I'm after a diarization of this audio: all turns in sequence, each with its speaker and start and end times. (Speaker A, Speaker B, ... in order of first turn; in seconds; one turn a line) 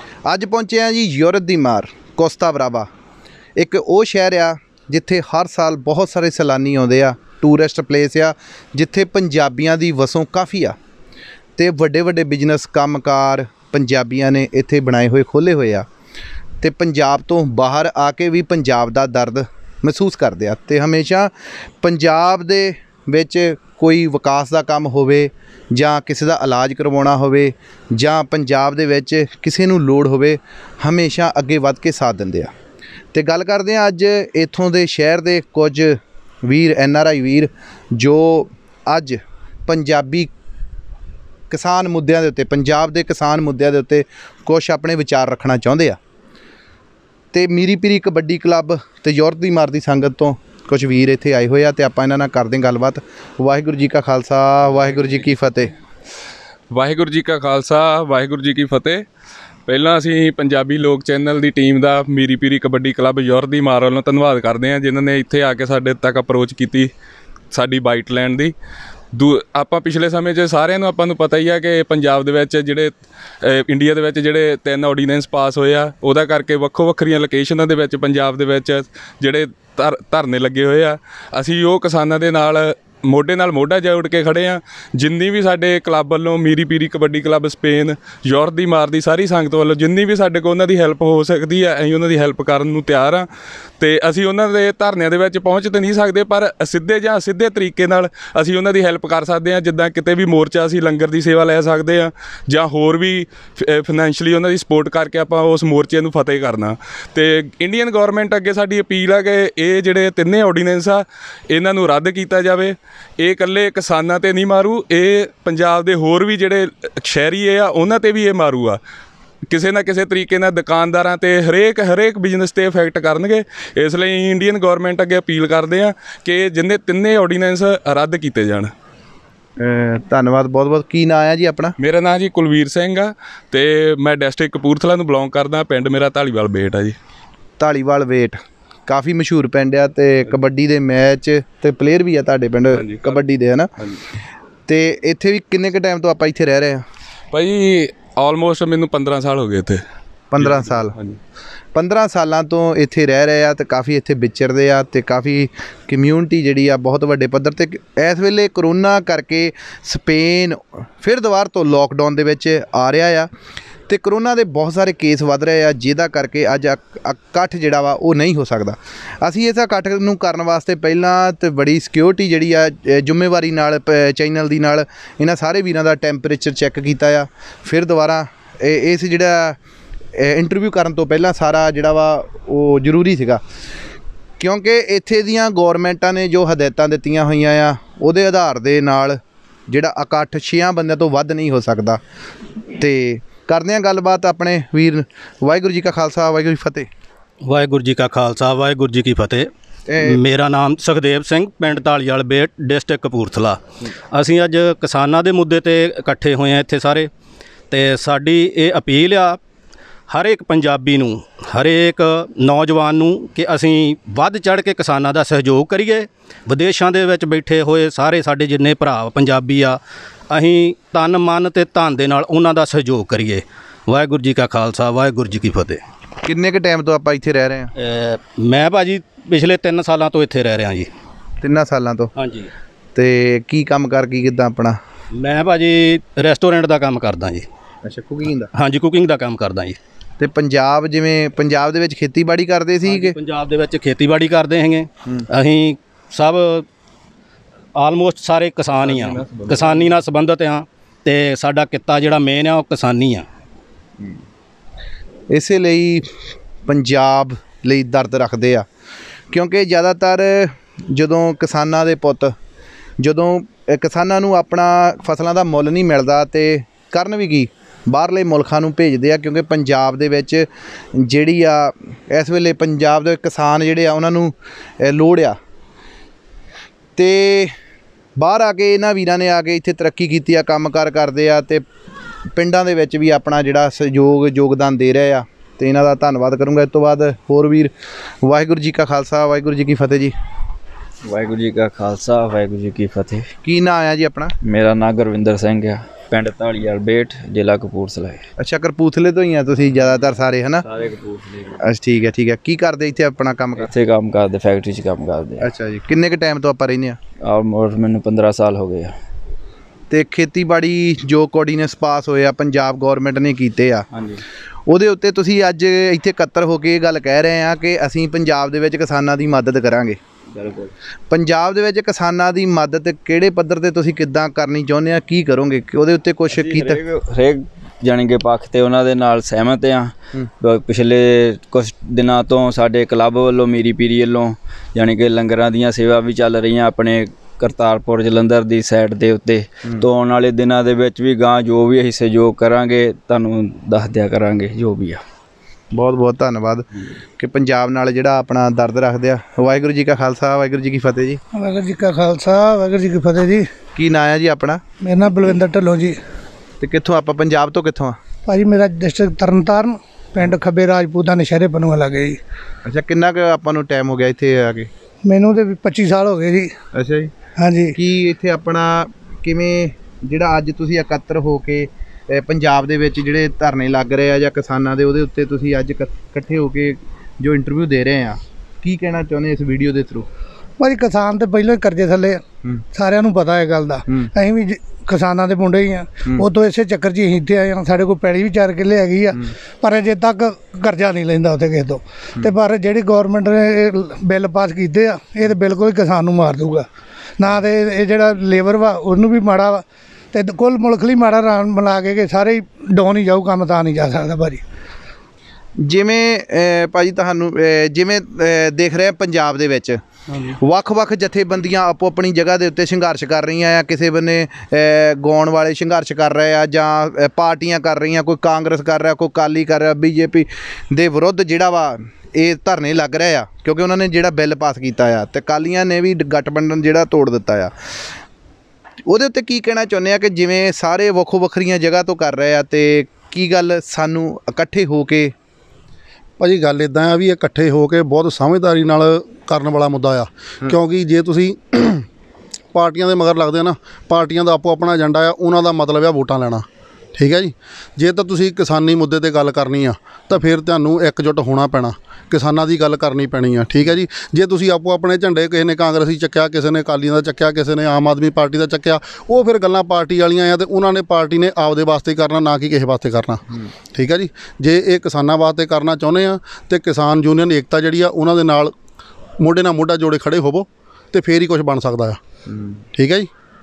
Speaker A: 0.2-2.9
Speaker A: 3.6-10.8
Speaker A: 11.6-15.9
Speaker A: 16.6-21.3
Speaker A: 21.8-32.5
Speaker A: 33.1-40.3
Speaker A: 41.5-46.0
Speaker A: 47.3-55.7
Speaker B: 56.7-59.0
Speaker B: 59.7-66.9
Speaker B: 67.5-68.5
Speaker B: 69.1-93.3
Speaker B: 93.8-118.8
Speaker B: 119.5-128.7
Speaker A: 129.6-131.8
Speaker B: 131.8-137.0
Speaker A: 137.6-143.7
Speaker B: 142.7-143.2
Speaker A: 144.7-146.8
Speaker B: 147.3-149.8
Speaker A: 150.3-150.9
Speaker B: 150.4-151.2
Speaker A: 151.8-163.3
Speaker A: 163.9-179.6
Speaker A: 180.2-183.4
Speaker A: 184.4-189.2
Speaker A: 189.7-192.0
Speaker A: 192.8-196.9
Speaker C: 197.4-199.5
Speaker A: 199.9-200.2
Speaker C: 200.0-203.6
Speaker C: 204.1-207.1
Speaker C: 207.7-209.4
Speaker C: 210.1-225.8
Speaker A: 226.2-227.7
Speaker C: 227.8-230.9
Speaker A: 231.4-232.1
Speaker C: 232.2-232.5
Speaker A: 232.9-234.8
Speaker C: 235.2-237.5
Speaker A: 237.8-238.5
Speaker C: 238.5-239.8
Speaker A: 240.2-243.2
Speaker C: 242.9-246.7
Speaker C: 247.8-253.3
Speaker D: 249.0-249.5
Speaker A: 255.3-256.1
Speaker A: 256.7-258.6
Speaker A: 259.3-262.3
Speaker A: 263.0-275.4
Speaker A: 277.0-277.5
Speaker A: 278.2-281.6
Speaker A: 282.4-290.1
Speaker D: 291.1-293.2
Speaker A: 293.4-294.3
Speaker D: 294.4-298.2
Speaker A: 298.4-300.6
Speaker D: 300.6-301.5
Speaker A: 301.6-303.7
Speaker D: 303.6-305.5
Speaker A: 305.4-307.0
Speaker D: 307.2-308.9
Speaker A: 309.9-313.9
Speaker D: 313.9-314.2
Speaker A: 314.7-320.0
Speaker D: 320.3-320.7
Speaker A: 321.1-326.8
Speaker D: 326.3-345.0
Speaker A: 345.7-346.7
Speaker A: 347.2-351.2
Speaker E: 351.3-353.5
Speaker A: 353.8-354.6
Speaker E: 354.8-356.0
Speaker A: 356.6-358.0
Speaker E: 358.3-362.2
Speaker A: 362.6-364.7
Speaker E: 365.0-366.5
Speaker A: 366.7-367.1
Speaker E: 367.4-367.8
Speaker A: 367.8-380.1
Speaker E: 380.6-382.2
Speaker E: 382.7-396.7
Speaker E: 397.2-404.4
Speaker A: 405.6-427.5
Speaker A: 428.9-435.1
Speaker F: 436.2-441.8
Speaker F: 442.5-463.2
Speaker F: 463.8-468.5
Speaker F: 469.2-472.0
Speaker F: 472.8-473.1